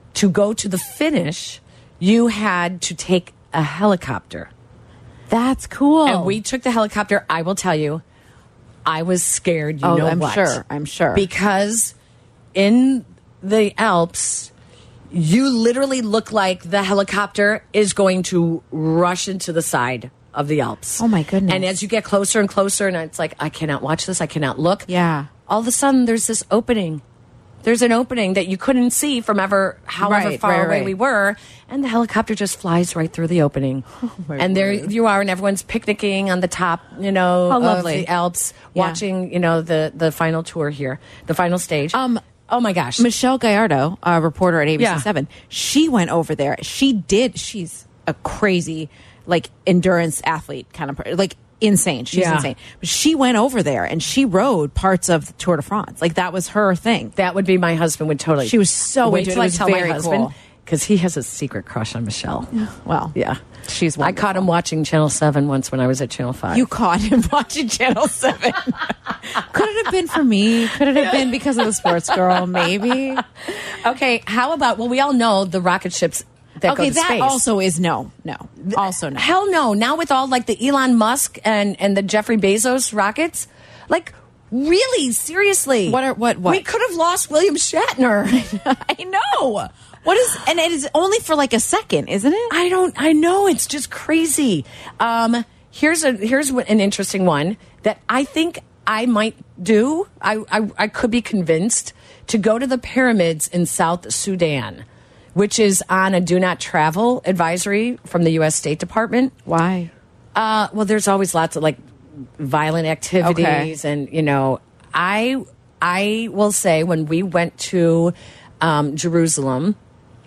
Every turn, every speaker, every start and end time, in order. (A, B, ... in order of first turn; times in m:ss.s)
0:00.1-0:04.5 A
0:05.3-0:06.4 B
0:06.0-0:08.0 A
0:08.9-0:10.6 A
0:09.8-0:11.3 B
0:11.1-0:11.9 A
0:12.5-0:14.5 A
0:15.1-0:24.9 A
0:21.0-0:21.7 B
0:24.9-0:25.3 B
0:25.5-0:27.0 A
0:27.6-0:33.8 A
0:30.0-0:31.0 B
0:34.0-0:34.9 B
0:34.4-0:43.1 A
0:37.5-0:38.1 B
0:38.8-0:39.0 B
0:41.9-0:42.2 B
0:43.0-0:57.2 B
0:44.8-0:45.1 A
0:52.1-0:52.5 A
0:57.2-1:02.5 A
0:58.4-1:00.3 B
1:02.6-1:04.5 B
1:03.1-1:03.4 A
1:04.0-1:06.7 A
1:06.5-1:13.2 B
1:11.0-1:11.3 A
1:11.8-1:12.3 A
1:13.6-1:17.4 A
1:16.6-1:19.3 B
1:18.6-1:28.6 A
1:25.9-1:26.7 B
1:28.4-1:32.5 B
1:32.5-1:44.8 A
1:45.4-1:49.3 A
1:49.5-1:49.9 B
1:50.4-1:51.8 A
1:52.4-1:59.8 A
1:53.2-1:53.7 B